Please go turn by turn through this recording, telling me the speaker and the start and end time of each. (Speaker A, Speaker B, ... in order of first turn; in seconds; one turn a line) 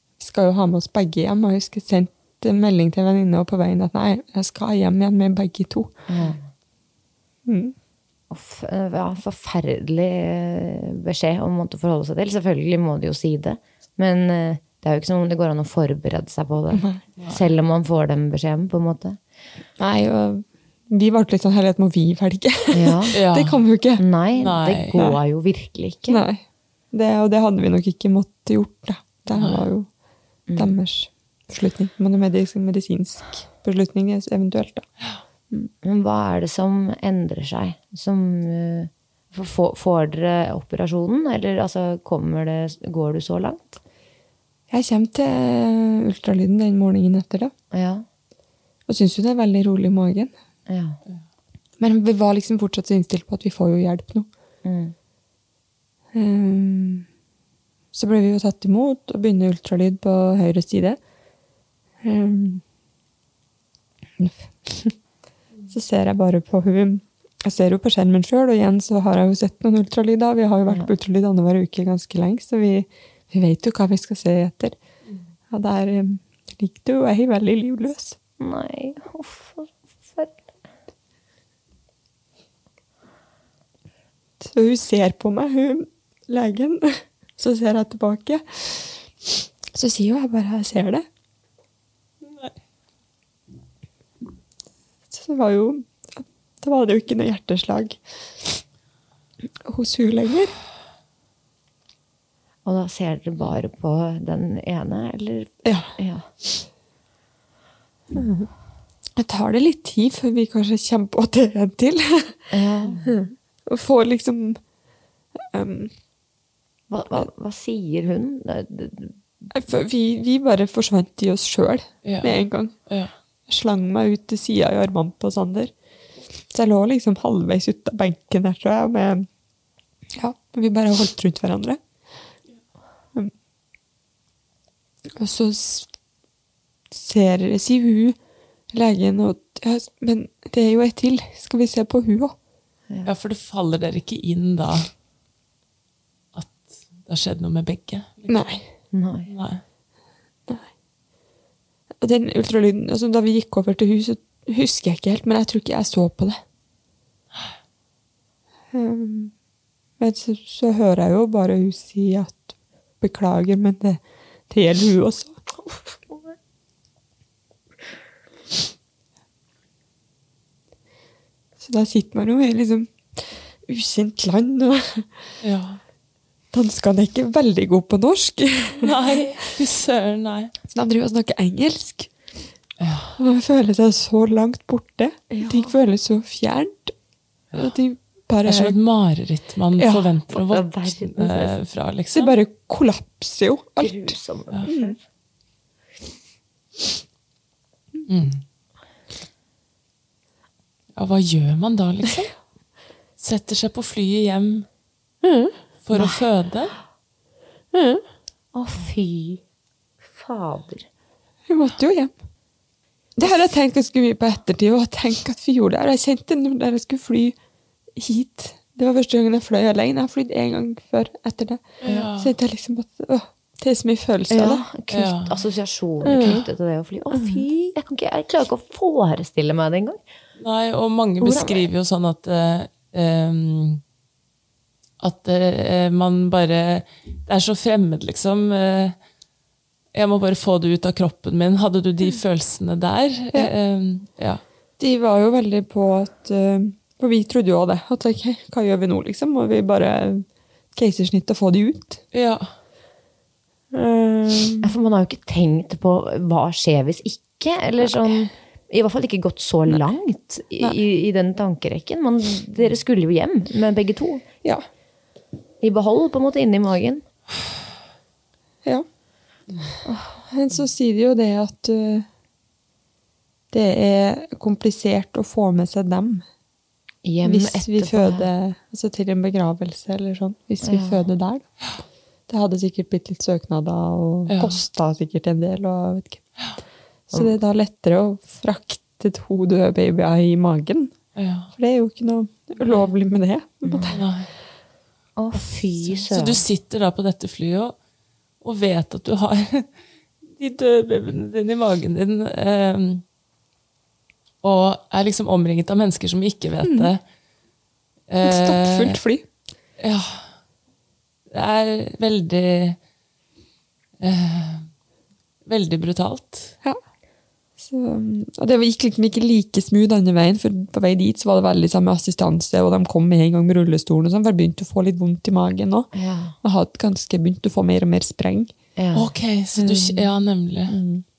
Speaker A: 0.2-6.1
Speaker B: 6.1-6.4
Speaker A: 7.5-7.7
Speaker B: 8.3-19.2
Speaker A: 16.7-17.0
Speaker C: 17.2-17.4
Speaker A: 19.8-24.0
Speaker B: 22.7-23.1
Speaker C: 23.1-23.6
Speaker B: 24.0-26.2
Speaker C: 24.4-25.0
Speaker A: 26.1-29.9
Speaker C: 29.3-29.6
Speaker B: 30.5-30.8
Speaker A: 30.6-34.9
Speaker B: 35.5-43.8
Speaker A: 44.7-47.5
Speaker B: 47.7-48.0
Speaker A: 48.9-50.3
Speaker B: 50.7-51.0
Speaker A: 51.8-54.3
Speaker B: 54.6-54.9
Speaker A: 56.1-57.0
Speaker A: 57.9-61.0
Speaker A: 62.0-62.6
Speaker A: 64.2-65.0
Speaker A: 65.7-74.8
Speaker B: 70.6-70.9
Speaker A: 75.5-78.2
Speaker B: 78.4-80.4
Speaker A: 84.4-91.0
Speaker C: 92.2-92.5
Speaker A: 95.1-98.0
Speaker A: 99.6-100.5
Speaker B: 102.6-106.3
Speaker A: 105.6-105.9
Speaker A: 108.1-108.5
Speaker A: 109.2-114.6
Speaker B: 112.5-113.0
Speaker A: 115.4-115.9
Speaker B: 116.9-119.1
Speaker A: 119.5-122.8
Speaker C: 122.0-123.1
Speaker A: 123.5-125.7
Speaker A: 126.5-129.3
Speaker A: 130.2-131.8
Speaker A: 135.2-135.9
Speaker A: 136.9-138.2
Speaker A: 138.7-142.3
Speaker C: 143.0-144.9
Speaker C: 146.3-148.4
Speaker A: 148.3-148.7
Speaker B: 148.9-149.3
Speaker C: 149.3-149.6
Speaker A: 152.0-156.4
Speaker A: 158.7-159.3
Speaker A: 160.0-165.4
Speaker A: 171.6-175.1
Speaker C: 175.4-175.8
Speaker A: 176.5-178.9
Speaker C: 178.8-180.5
Speaker A: 180.7-182.1
Speaker C: 182.8-183.1
Speaker A: 183.2-186.9
Speaker B: 185.3-185.7
Speaker A: 187.5-188.8
Speaker C: 188.4-192.3
Speaker A: 189.8-190.1
Speaker B: 190.3-191.6
Speaker A: 192.1-194.9
Speaker B: 193.8-195.0
Speaker C: 198.1-198.4
Speaker C: 200.9-202.3
Speaker C: 203.2-204.7
Speaker C: 205.8-206.7
Speaker B: 205.9-206.2
Speaker B: 208.5-209.4
Speaker B: 210.1-210.8
Speaker A: 211.5-212.1
Speaker A: 213.2-217.3
Speaker A: 217.9-224.7
Speaker C: 221.8-222.3
Speaker B: 224.3-230.0
Speaker C: 224.9-225.3
Speaker A: 226.0-226.4
Speaker A: 227.1-227.7
Speaker C: 230.4-233.8
Speaker A: 231.2-231.5
Speaker C: 235.0-238.9
Speaker C: 239.9-244.4
Speaker A: 244.8-252.0
Speaker C: 252.1-252.5
Speaker A: 253.7-254.7
Speaker B: 254.6-264.2
Speaker B: 265.6-267.0
Speaker A: 269.8-272.1
Speaker A: 273.5-276.2
Speaker B: 277.0-278.3
Speaker A: 277.2-281.5
Speaker B: 280.6-281.1
Speaker A: 282.3-286.2
Speaker C: 284.3-284.6
Speaker A: 287.1-290.9
Speaker C: 291.1-291.5
Speaker A: 291.5-294.0
Speaker B: 293.6-293.9
Speaker C: 293.9-294.3
Speaker B: 295.2-296.4
Speaker C: 295.9-297.8
Speaker C: 298.4-299.8
Speaker C: 300.3-303.0
Speaker C: 304.4-307.0
Speaker A: 306.6-306.9
Speaker C: 308.1-309.0
Speaker A: 308.2-309.2
Speaker C: 309.8-310.3
Speaker C: 311.3-312.8
Speaker C: 314.0-314.7
Speaker C: 315.4-316.5
Speaker A: 317.6-325.9
Speaker B: 325.9-326.4
Speaker A: 326.4-328.5
Speaker B: 328.8-329.1
Speaker C: 328.9-330.8
Speaker A: 329.6-330.1
Speaker A: 330.7-331.0